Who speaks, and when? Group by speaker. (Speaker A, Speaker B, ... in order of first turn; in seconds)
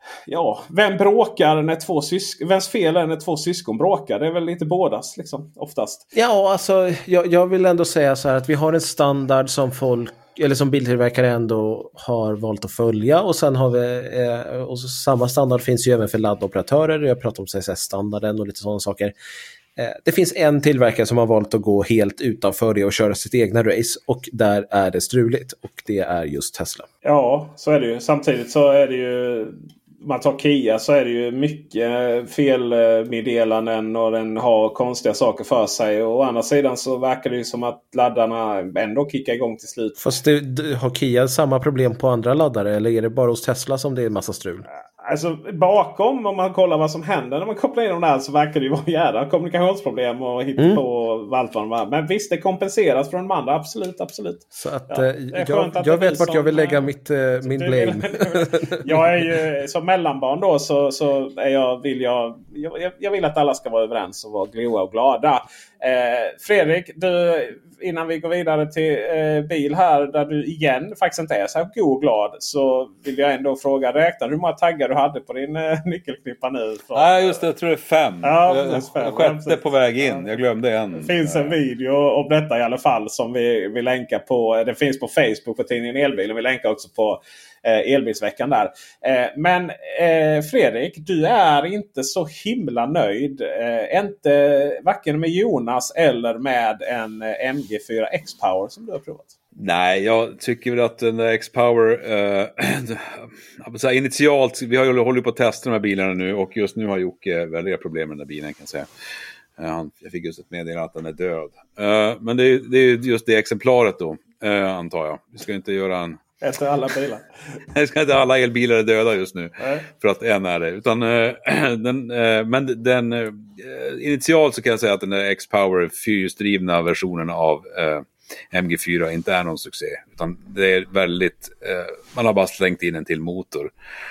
Speaker A: 0.3-6.0, 27.0-40.1, 45.0-56.9, 57.4-77.4, 78.2-80.2, 81.0-99.3, 116.4-117.2
Speaker B: 6.1-19.1, 19.8-26.9, 40.0-44.6, 50.6-50.8, 54.6-59.1
Speaker C: 76.9-81.5, 99.5-108.9, 109.6-116.2, 117.7-133.7